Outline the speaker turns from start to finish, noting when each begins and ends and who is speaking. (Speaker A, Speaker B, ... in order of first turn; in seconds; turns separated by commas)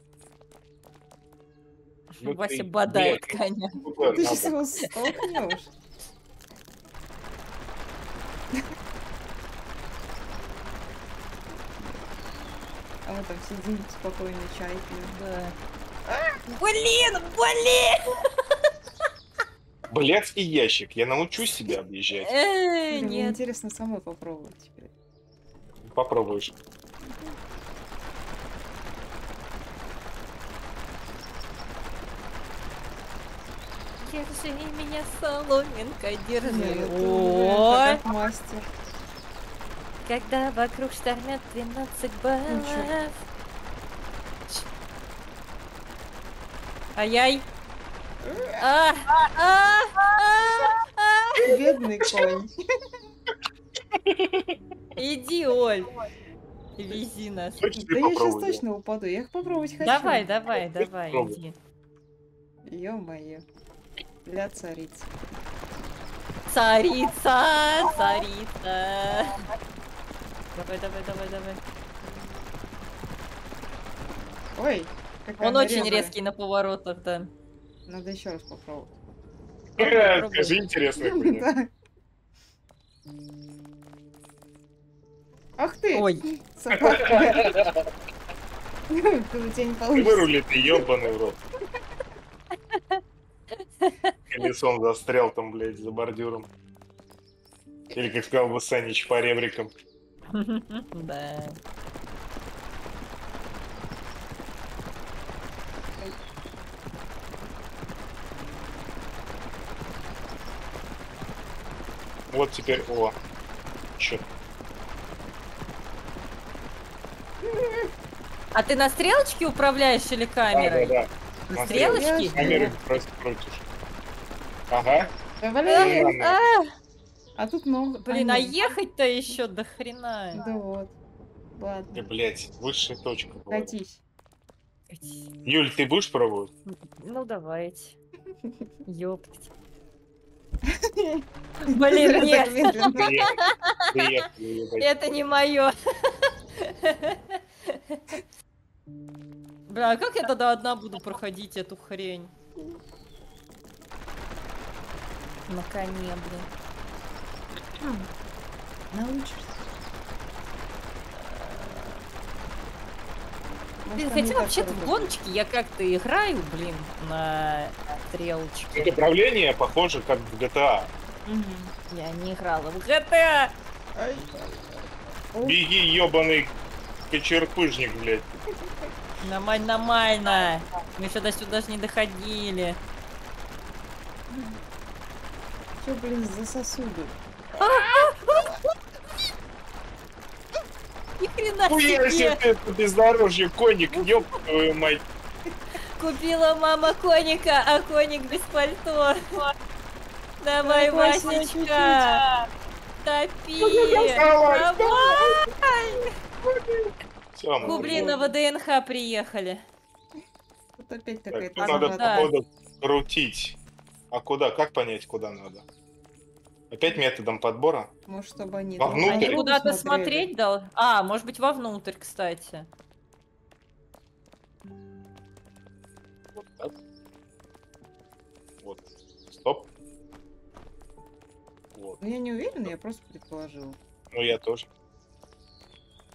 Speaker A: 2.1-3.7, Speaker B: 2.2-4.6, Speaker C: 4.1-5.7, Speaker C: 11.8-12.0, Speaker C: 13.1-15.2, Speaker A: 15.1-15.6, Speaker C: 16.1-16.4, Speaker A: 16.5-18.0, Speaker B: 19.9-22.3, Speaker A: 22.2-23.4, Speaker C: 22.9-24.9, Speaker B: 25.8-26.6, Speaker A: 34.0-38.0, Speaker C: 36.4-38.7, Speaker A: 40.1-43.1, Speaker C: 42.5-43.0, Speaker A: 47.0-47.5, Speaker C: 48.2-48.7, Speaker A: 48.6-51.4, Speaker C: 51.4-52.5, Speaker B: 51.4-52.3, Speaker B: 54.1-54.5, Speaker A: 55.0-55.9, Speaker A: 56.8-57.6, Speaker B: 57.6-58.6, Speaker C: 57.8-60.3, Speaker A: 59.8-61.5, Speaker B: 60.8-61.4, Speaker C: 62.6-63.5, Speaker C: 64.2-65.1, Speaker A: 66.5-69.4, Speaker A: 70.5-71.6, Speaker C: 74.6-76.1, Speaker A: 75.4-77.3, Speaker C: 77.9-79.0, Speaker B: 79.8-81.5, Speaker A: 79.8-80.6, Speaker C: 81.0-81.7, Speaker C: 85.6-87.5, Speaker A: 85.9-86.2, Speaker B: 86.7-87.8, Speaker C: 88.9-90.8, Speaker B: 89.9-91.4, Speaker A: 92.7-93.0, Speaker A: 93.8-94.1, Speaker B: 94.3-96.5, Speaker B: 97.9-99.7, Speaker A: 100.3-101.6, Speaker B: 112.3-113.2, Speaker B: 114.0-114.2, Speaker C: 117.5-117.9, Speaker A: 118.5-120.9, Speaker B: 120.5-123.6, Speaker A: 121.5-122.7, Speaker C: 121.6-122.7, Speaker B: 124.7-125.1, Speaker C: 125.4-126.2, Speaker A: 125.7-126.7, Speaker B: 125.8-126.4, Speaker C: 127.4-128.7, Speaker A: 128.0-130.4, Speaker C: 130.3-130.9, Speaker C: 131.6-132.0, Speaker B: 131.9-133.8, Speaker C: 133.5-134.0, Speaker A: 134.9-135.3, Speaker B: 135.4-136.5, Speaker A: 137.0-138.0, Speaker A: 138.9-139.5, Speaker C: 140.9-143.1, Speaker A: 141.7-143.8, Speaker B: 143.0-143.4, Speaker B: 143.9-144.9, Speaker A: 144.8-145.8, Speaker A: 146.6-148.2, Speaker A: 149.7-152.3, Speaker A: 155.5-156.5, Speaker C: 157.8-158.1, Speaker C: 158.9-159.6, Speaker A: 161.2-162.0, Speaker C: 163.8-165.2, Speaker A: 164.0-168.9, Speaker B: 168.7-170.9, Speaker C: 171.2-171.7, Speaker A: 171.9-173.5, Speaker C: 173.9-175.6, Speaker B: 175.4-176.5, Speaker B: 177.1-178.3, Speaker A: 179.2-182.8, Speaker C: 184.3-184.6, Speaker C: 185.8-187.2, Speaker A: 187.6-188.5, Speaker A: 191.2-192.4, Speaker B: 191.7-195.0, Speaker A: 196.0-199.2, Speaker A: 200.4-202.2, Speaker C: 200.6-202.2, Speaker A: 203.0-206.1, Speaker B: 203.6-205.4, Speaker B: 206.4-208.2, Speaker C: 207.6-208.3, Speaker A: 207.7-209.6, Speaker C: 210.8-212.3, Speaker B: 211.3-213.6, Speaker A: 211.6-212.3, Speaker B: 214.1-215.7, Speaker B: 216.7-217.9, Speaker C: 218.1-220.3, Speaker B: 218.8-219.4, Speaker A: 219.0-222.7, Speaker B: 226.3-226.7, Speaker B: 228.6-229.7, Speaker B: 231.7-232.0, Speaker C: 232.0-233.8, Speaker B: 234.1-234.7